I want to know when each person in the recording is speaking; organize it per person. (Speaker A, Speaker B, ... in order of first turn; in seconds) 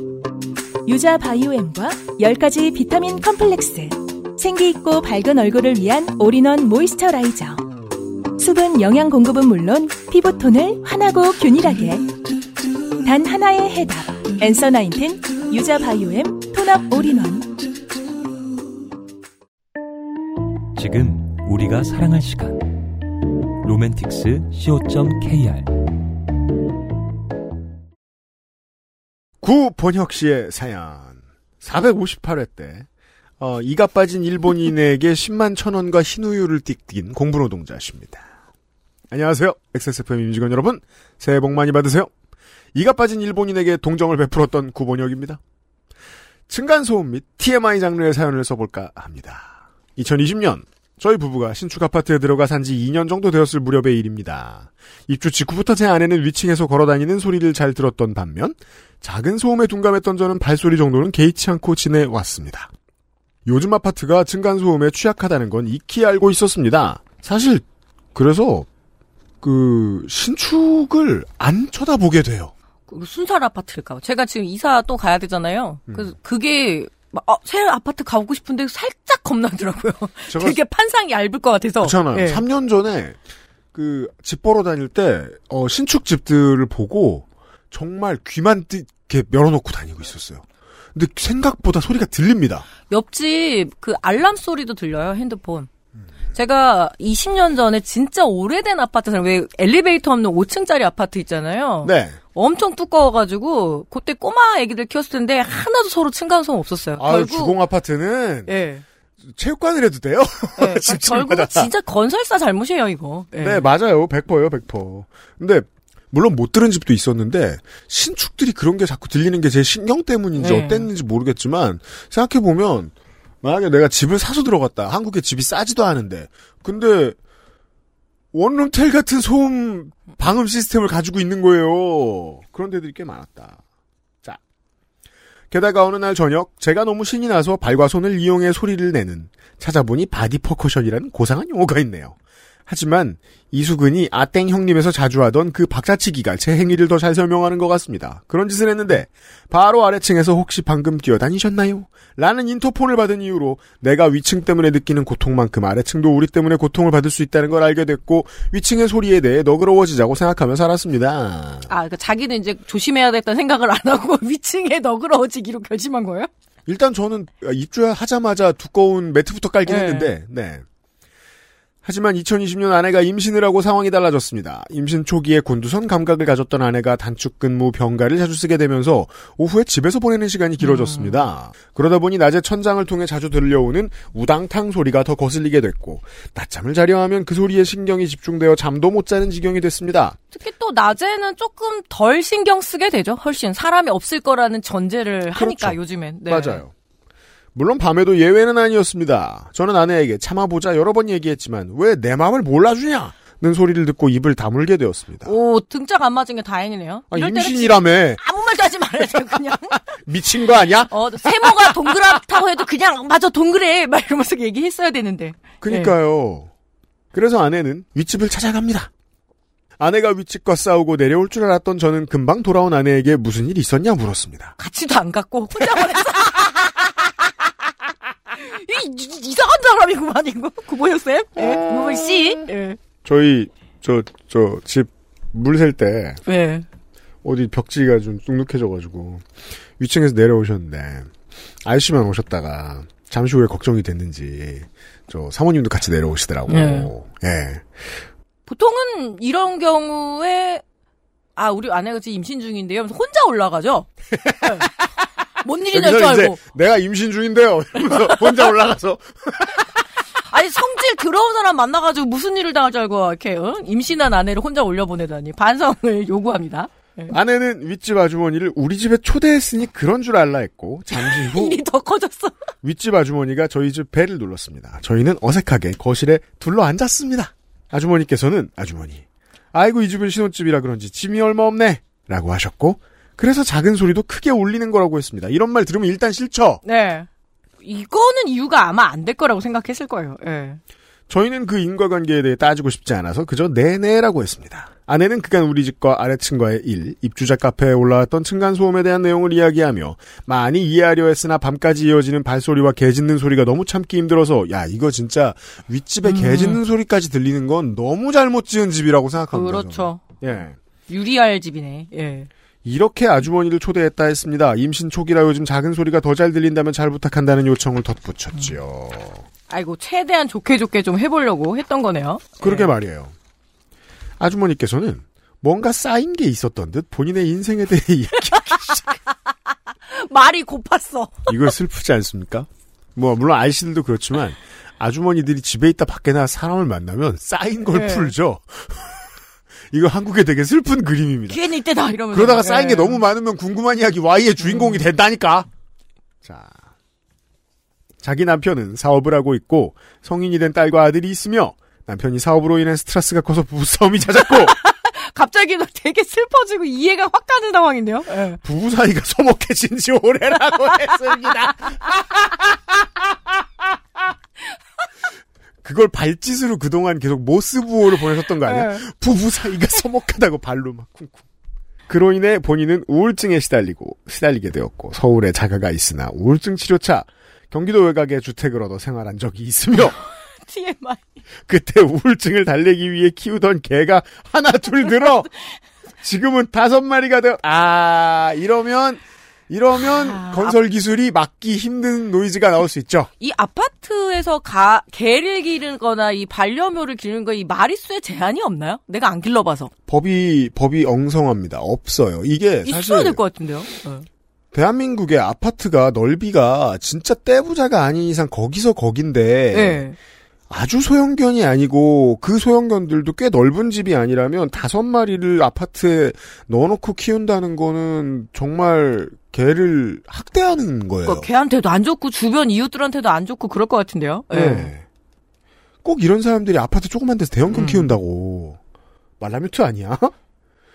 Speaker A: 0.8-7.6, 8.4-12.1, 13.0-17.6
Speaker B: 20.7-22.7, 23.6-25.7
Speaker C: 29.4-32.9, 33.4-38.2, 39.1-42.1, 42.7-45.4, 46.5-62.7, 63.4-67.6, 68.1-68.7, 69.4-72.5, 75.9-76.1, 80.3-80.6, 81.8-83.2, 83.7-92.7, 101.8-102.2, 107.0-108.5, 109.2-111.7, 113.4-127.2, 128.3-133.6, 135.5-142.2, 142.7-161.7, 166.7-170.6, 171.8-190.2, 195.3-196.7, 197.5-205.3, 207.1-208.2, 210.0-211.9, 215.6-216.5, 217.1-218.9, 219.8-224.5, 231.4-232.4, 233.0-236.2, 237.2-239.2, 239.8-241.1, 241.6-247.8, 254.1-254.7, 255.7-259.6, 267.1-271.6, 272.6-286.6, 291.1-310.6, 312.6-319.2, 322.4-323.1, 324.2-329.0, 331.3-338.9, 339.7-341.4, 342.1-345.5, 346.2-346.5, 348.0-354.6, 358.4-362.8, 365.6-371.2, 371.9-380.0, 381.5-385.3, 386.0-393.1, 399.9-403.2, 404.5-409.8, 410.5-421.3, 424.3-424.8, 425.8-428.6, 429.2-430.1
Speaker D: 72.9-82.4, 92.9-95.7, 96.3-107.6, 108.5-108.8, 110.6-113.6, 120.3-120.9, 161.7-166.3, 169.7-170.1, 180.6-181.2, 190.3-196.6, 205.2-209.8, 210.9-215.9, 224.6-227.1, 228.3-232.8, 236.2-236.7, 246.5-246.9, 248.5-250.6, 251.3-253.9, 254.4-254.7, 255.4-256.4, 258.1-258.4, 260.3-267.1, 270.9-272.4, 286.6-287.1, 287.6-290.6, 306.0-306.6, 309.3-310.2, 310.9-312.3, 319.5-322.7, 329.9-331.3, 337.7-338.1, 341.3-343.0, 344.4-344.8, 354.3-358.4, 368.4-368.8, 380.4-381.0, 389.8-390.5, 393.2-399.7, 402.6-404.1, 409.5-409.9, 421.0-424.7, 427.5-427.9